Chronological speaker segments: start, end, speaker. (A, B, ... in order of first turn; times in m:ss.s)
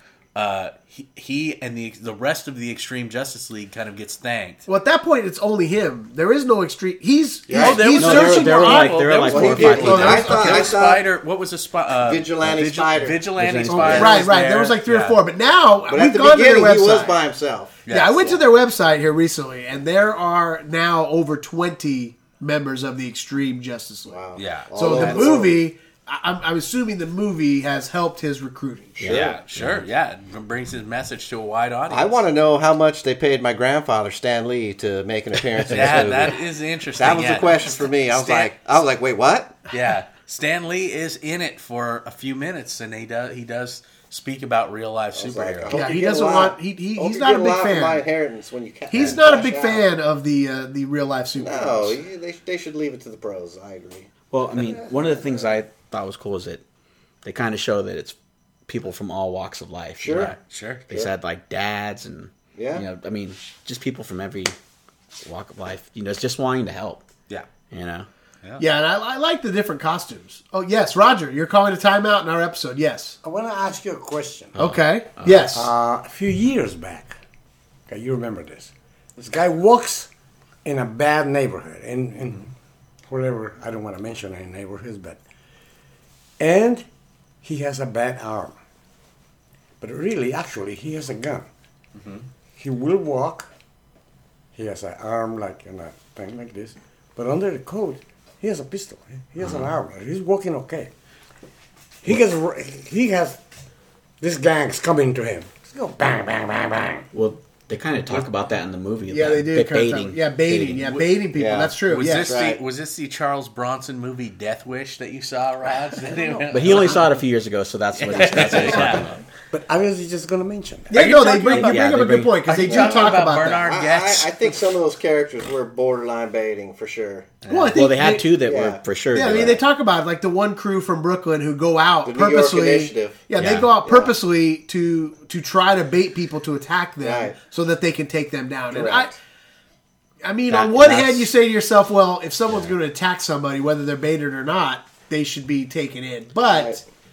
0:00.4-0:04.6 A
0:04.7-0:10.7 B
0:07.5-0:08.0 C
0:07.5-0:15.2 A
0:07.6-0:10.6 D
0:09.3-0:11.0 C
0:12.0-0:13.2 C
0:13.4-0:14.2 D
0:13.7-0:17.2 B
0:13.8-0:14.2 C
0:15.9-0:18.4 C
0:17.9-0:18.2 A
0:17.9-0:24.2 B
0:24.1-0:25.6 C
0:24.4-0:25.2 A
0:24.7-0:29.0 B
0:29.0-0:29.9 D
0:29.0-0:29.4 C
0:29.1-0:32.2 A
0:31.9-0:36.4 C
0:35.6-0:38.5 A
0:37.0-0:39.6 C
0:39.7-0:45.8 A
0:45.1-0:49.8 C
0:45.7-0:48.0 B
0:48.9-0:52.0 B
0:51.4-0:55.5 C
0:54.3-0:56.6 D
0:57.2-0:58.2 D
0:58.7-1:00.3 D
1:00.0-1:00.4 C
1:00.1-1:00.8 A
1:00.9-1:04.6 D
1:02.6-1:02.9 C
1:05.2-1:07.1 D
1:07.7-1:08.1 D
1:08.6-1:13.2 B
1:13.2-1:14.6 E
1:14.6-1:15.5 D
1:14.6-1:15.7 B
1:15.5-1:17.2 E
1:17.9-1:20.1 E
1:20.6-1:22.5 E
1:23.1-1:25.2 E
1:26.4-1:26.9 E
1:27.4-1:28.6 E
1:29.8-1:31.5 E
1:32.0-1:32.2 A
1:32.6-1:33.5 E
1:34.6-1:40.9 E
1:39.4-1:39.7 D
1:42.0-1:43.4 E
1:44.2-1:47.0 E
1:47.1-1:50.8 D
1:49.1-1:52.4 B
1:51.4-1:52.6 C
1:51.9-1:57.1 A
1:56.0-1:57.1 E
1:56.5-1:59.2 D
1:58.0-1:59.1 A
1:59.5-2:01.0 E
2:00.9-2:03.6 B
2:00.9-2:01.8 A
2:01.5-2:02.4 D
2:02.5-2:04.3 A
2:02.7-2:07.4 C
2:07.5-2:08.3 B
2:07.7-2:09.6 D
2:08.4-2:09.6 C
2:09.1-2:19.1 B
2:12.0-2:13.2 C
2:13.4-2:13.7 D
2:13.8-2:14.1 C
2:17.0-2:17.4 C
2:18.7-2:19.2 C
2:20.2-2:26.8 B
2:20.5-2:21.3 D
2:26.5-2:26.8 C